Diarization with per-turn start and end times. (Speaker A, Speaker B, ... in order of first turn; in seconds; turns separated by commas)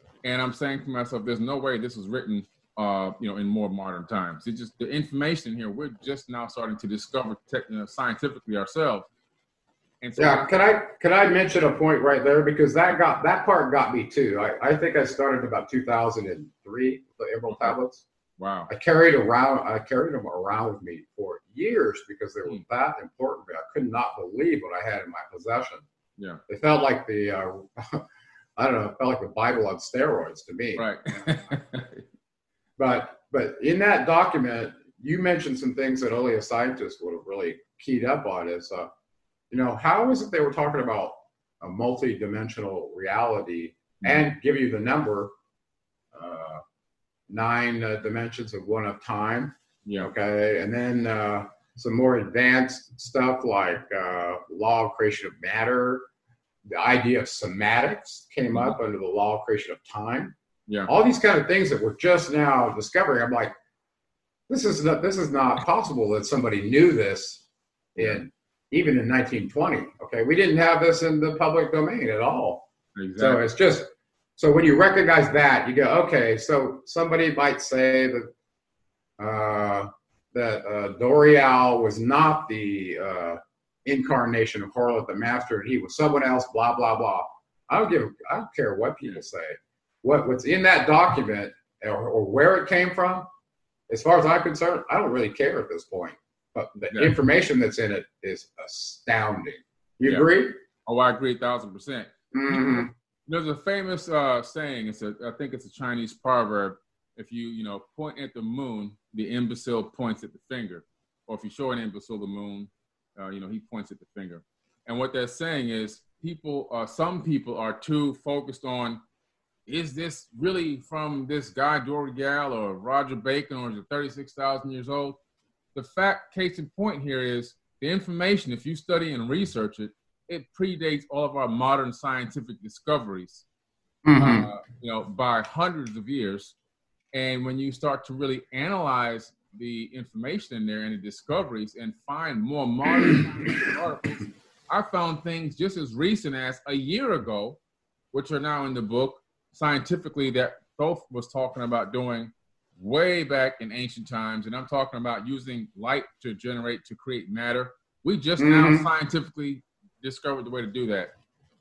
Speaker A: 0.2-9.1, Speaker A: 10.0-10.5, Speaker B: 10.2-18.0, Speaker A: 18.4-18.7, Speaker B: 18.7-25.9, Speaker B: 26.5-28.0, Speaker B: 28.6-31.4, Speaker A: 30.8-32.0, Speaker B: 32.8-38.9, Speaker B: 39.5-45.3, Speaker B: 46.1-46.6, Speaker B: 47.3-56.1, Speaker B: 56.7-60.3, Speaker B: 60.9-63.5, Speaker B: 64.5-67.4, Speaker B: 68.0-78.3, Speaker A: 72.9-73.4, Speaker B: 79.2-93.3, Speaker B: 93.9-100.5, Speaker A: 100.8-119.0, Speaker B: 102.3-102.9, Speaker A: 119.7-125.2, Speaker A: 125.7-133.4, Speaker B: 134.0-134.5, Speaker A: 134.2-136.6, Speaker A: 137.1-147.6, Speaker B: 142.8-143.2, Speaker A: 148.1-161.1, Speaker B: 158.4-158.9